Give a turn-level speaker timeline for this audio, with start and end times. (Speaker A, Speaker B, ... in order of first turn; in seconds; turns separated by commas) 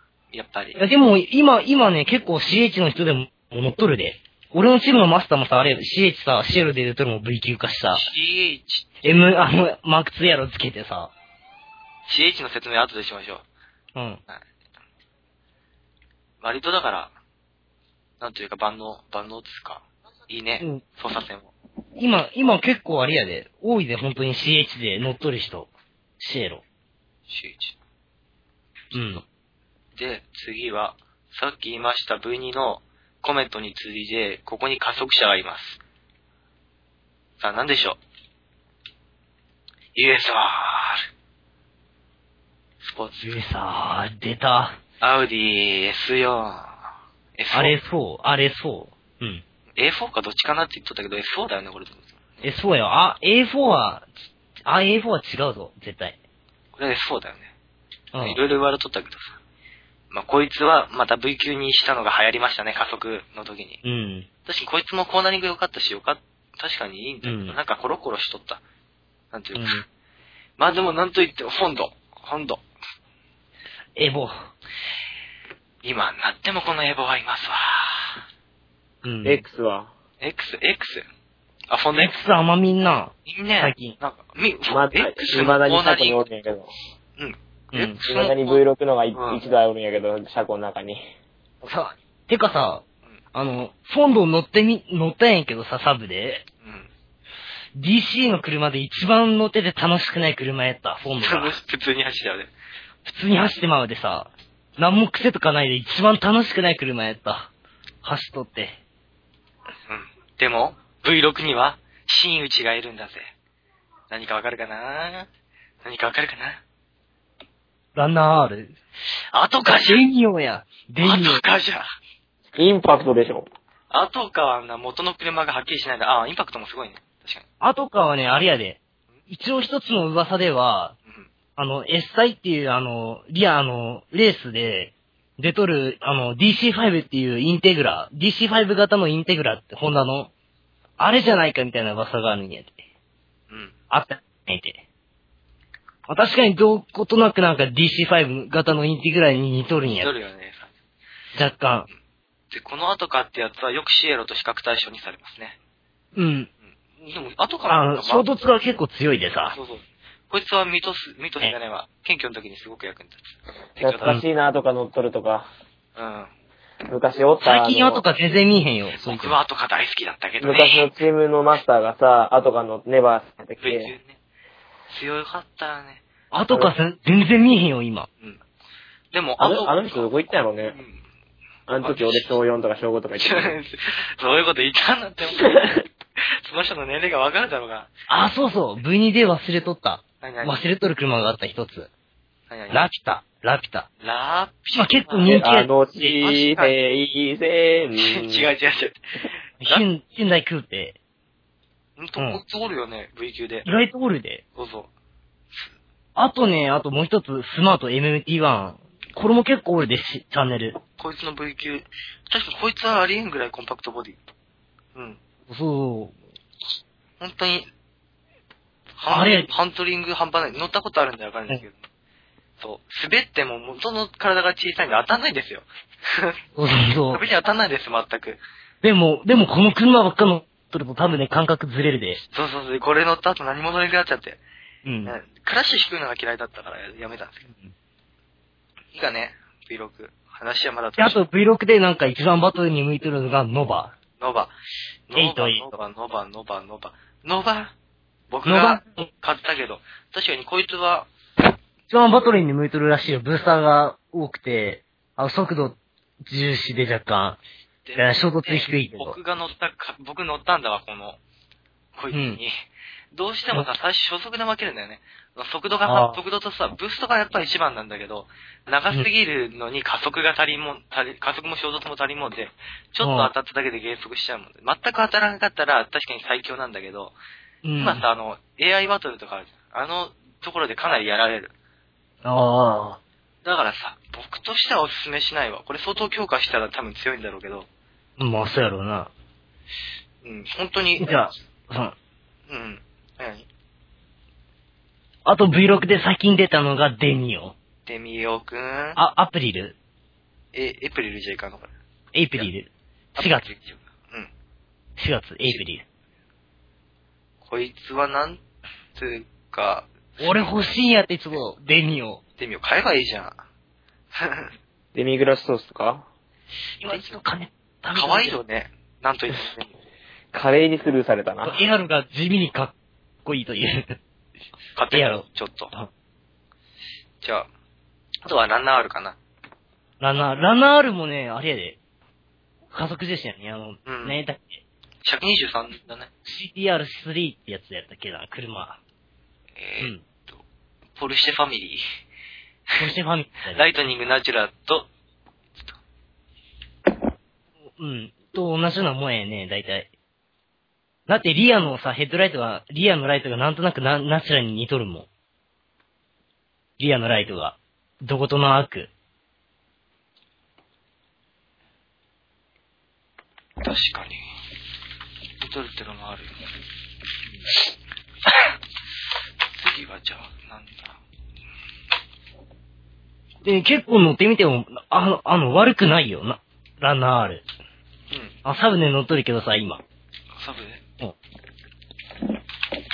Speaker A: 0.3-0.8, Speaker B: 0.8-8.1, Speaker A: 7.9-9.1, Speaker B: 9.0-11.1, Speaker A: 12.1-13.4, Speaker B: 13.9-14.2, Speaker A: 16.4-17.1, Speaker A: 18.2-21.5, Speaker B: 22.0-26.6, Speaker A: 27.3-27.8, Speaker B: 28.9-29.2, Speaker A: 29.9-35.8, Speaker A: 37.4-38.0, Speaker A: 40.0-41.1, Speaker A: 42.8-43.4, Speaker B: 43.2-44.8, Speaker A: 45.0-46.8, Speaker A: 47.4-47.8, Speaker B: 47.5-49.4, Speaker A: 49.8-52.4, Speaker B: 52.4-54.1, Speaker B: 54.6-56.2, Speaker A: 56.8-57.5, Speaker B: 58.1-58.4, Speaker A: 58.2-59.4, Speaker A: 60.1-63.8, Speaker B: 63.8-64.3, Speaker A: 64.5-68.6, Speaker B: 67.2-67.6, Speaker A: 69.3-69.8, Speaker B: 69.5-69.8, Speaker A: 70.6-72.6, Speaker B: 74.0-74.5, Speaker A: 75.8-78.2, Speaker B: 79.0-79.4, Speaker C: 79.2-79.9, Speaker A: 80.2-81.0, Speaker A: 81.7-82.2, Speaker B: 81.9-84.0, Speaker A: 83.3-86.3, Speaker C: 84.7-86.7, Speaker A: 87.2-88.6, Speaker B: 87.7-88.0, Speaker C: 88.0-91.0, Speaker A: 89.1-89.4, Speaker B: 91.6-96.5, Speaker A: 96.6-96.9, Speaker B: 97.8-101.6, Speaker A: 101.2-102.5, Speaker B: 103.0-107.5, Speaker B: 108.0-108.8, Speaker A: 109.9-113.3, Speaker A: 114.1-115.3, Speaker A: 115.8-116.6, Speaker B: 118.0-118.7, Speaker A: 119.3-120.0, Speaker B: 119.7-121.4, Speaker A: 121.0-121.9, Speaker C: 122.6-123.5, Speaker A: 123.9-127.5, Speaker B: 127.6-130.9, Speaker B: 131.6-140.3, Speaker B: 141.0-142.8, Speaker B: 143.9-144.8, Speaker B: 146.1-150.1, Speaker A: 149.9-150.7, Speaker B: 151.3-151.9, Speaker A: 152.5-155.6, Speaker B: 156.2-156.5, Speaker A: 156.7-158.3, Speaker B: 157.7-159.6, Speaker A: 159.5-164.2, Speaker C: 163.8-165.5, Speaker A: 166.0-166.3, Speaker C: 166.9-168.1, Speaker B: 167.4-169.3, Speaker A: 169.0-170.9, Speaker C: 170.4-173.9, Speaker A: 173.6-174.2, Speaker A: 174.9-176.0, Speaker B: 176.3-178.1, Speaker A: 179.1-181.0, Speaker C: 179.4-180.8, Speaker C: 181.7-183.6, Speaker A: 181.8-182.4, Speaker A: 183.2-185.6, Speaker A: 186.2-187.9, Speaker B: 188.1-191.9, Speaker A: 190.2-190.6, Speaker A: 192.5-192.8, Speaker B: 192.7-193.9, Speaker A: 194.0-195.4, Speaker B: 194.8-196.2, Speaker C: 195.3-198.5, Speaker A: 196.2-196.8, Speaker A: 198.0-199.0, Speaker B: 199.6-201.0, Speaker A: 202.0-203.7, Speaker B: 202.2-202.4, Speaker B: 203.7-204.4, Speaker A: 204.6-204.9, Speaker B: 206.2-210.8, Speaker A: 211.0-214.2, Speaker A: 214.9-215.2, Speaker B: 215.5-216.1, Speaker A: 217.2-217.7, Speaker A: 219.0-221.8, Speaker B: 219.1-219.5, Speaker A: 222.6-226.4, Speaker B: 226.6-227.3, Speaker A: 227.1-228.4, Speaker B: 228.8-232.2, Speaker A: 232.3-234.4, Speaker B: 234.8-235.2, Speaker A: 235.1-237.5, Speaker B: 237.5-237.7, Speaker A: 238.9-241.2, Speaker B: 241.0-243.9, Speaker A: 244.2-244.5, Speaker A: 245.1-247.7, Speaker B: 245.2-245.7, Speaker A: 248.3-251.1, Speaker B: 248.4-249.1, Speaker B: 251.9-257.4, Speaker A: 257.9-261.2, Speaker B: 258.0-259.2, Speaker A: 261.9-262.5, Speaker B: 262.1-262.4, Speaker A: 263.1-277.1, Speaker B: 265.8-266.2, Speaker B: 273.0-273.3, Speaker B: 277.6-278.1, Speaker A: 277.8-281.5, Speaker B: 282.2-283.0, Speaker A: 283.4-287.7, Speaker B: 288.2-289.1, Speaker A: 290.2-291.1, Speaker B: 291.0-291.9, Speaker A: 292.5-293.5, Speaker B: 295.2-297.6, Speaker A: 297.9-299.0, Speaker B: 299.0-299.8, Speaker A: 300.5-301.7, Speaker B: 302.1-303.5, Speaker A: 303.2-304.3, Speaker B: 305.0-305.8, Speaker A: 307.4-308.4, Speaker A: 308.9-310.5, Speaker B: 310.2-312.2, Speaker A: 312.4-313.4, Speaker A: 314.1-314.5, Speaker C: 314.9-316.1, Speaker B: 316.8-318.4, Speaker A: 316.9-317.2, Speaker A: 317.9-319.7, Speaker C: 320.3-321.6, Speaker B: 321.4-322.7, Speaker B: 323.2-324.0, Speaker A: 324.8-325.7, Speaker B: 324.9-325.9, Speaker A: 327.2-327.5, Speaker A: 328.2-329.2, Speaker B: 330.0-331.8, Speaker B: 332.7-334.6, Speaker A: 333.9-334.2, Speaker A: 335.0-336.1, Speaker B: 336.2-338.8, Speaker A: 339.6-340.4, Speaker A: 341.0-341.8, Speaker B: 342.8-343.7, Speaker A: 343.5-344.9, Speaker B: 347.8-349.9, Speaker B: 351.1-355.1, Speaker B: 356.8-358.9, Speaker A: 363.6-364.2, Speaker A: 365.4-366.4, Speaker A: 369.6-371.0, Speaker B: 373.4-377.4, Speaker A: 378.1-378.4, Speaker B: 378.4-379.8, Speaker A: 380.4-380.8